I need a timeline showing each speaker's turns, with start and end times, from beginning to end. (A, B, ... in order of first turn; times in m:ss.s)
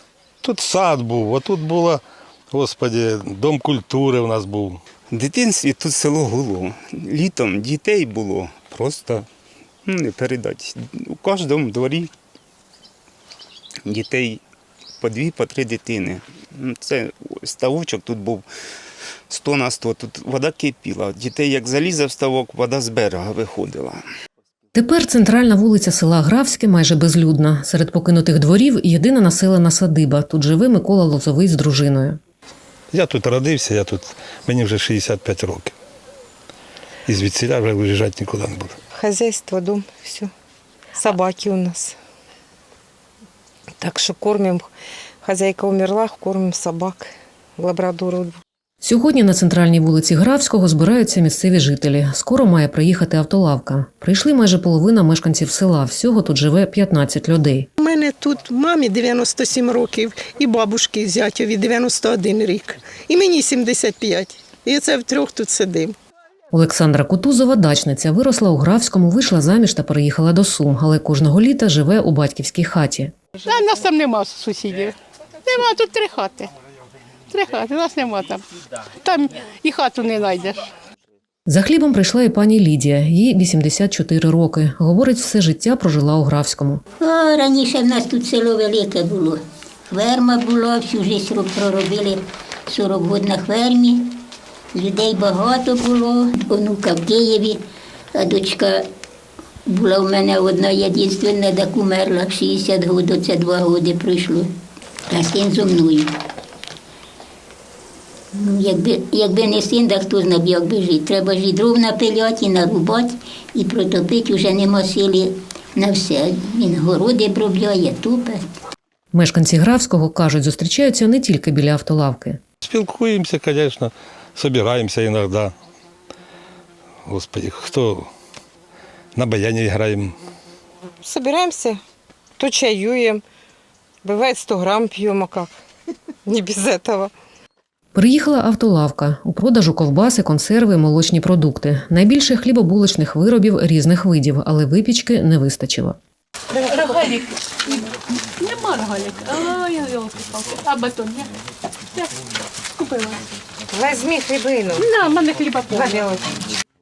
0:00.4-0:04.8 A
0:05.1-0:09.3 B
0:09.9-0:12.1 B
0:13.9-0:14.4 B
0:15.0-0:18.4 B
0:19.3-0:24.0 B
0:24.7-0:32.2 C
0:32.9-0:35.7 A
0:37.1-0:38.8 A
0:38.9-0:40.3 D
0:40.9-0:42.0 D
0:43.8-0:44.7 D
0:45.2-0:48.4 D
0:48.8-0:57.7 C
0:57.8-1:06.0 E
1:06.5-1:13.1 C
1:13.4-1:16.5 F
1:17.3-1:20.7 F
1:21.4-1:26.8 C
1:27.0-1:34.2 G
1:34.7-1:37.6 G
1:38.1-1:38.9 G
1:39.7-1:44.5 G
1:45.1-1:46.1 G
1:48.3-1:58.4 G
1:59.1-2:02.4 C
2:02.6-2:05.5 A
2:07.1-2:08.1 A
2:09.1-2:10.2 A
2:11.0-2:11.8 D
2:12.4-2:13.2 D
2:14.0-2:15.5 D
2:16.2-2:17.1 D
2:17.9-2:26.0 C
2:26.6-2:31.3 F
2:31.9-2:33.2 F
2:33.7-2:34.9 D
2:34.7-2:36.2 F
2:35.7-2:36.4 D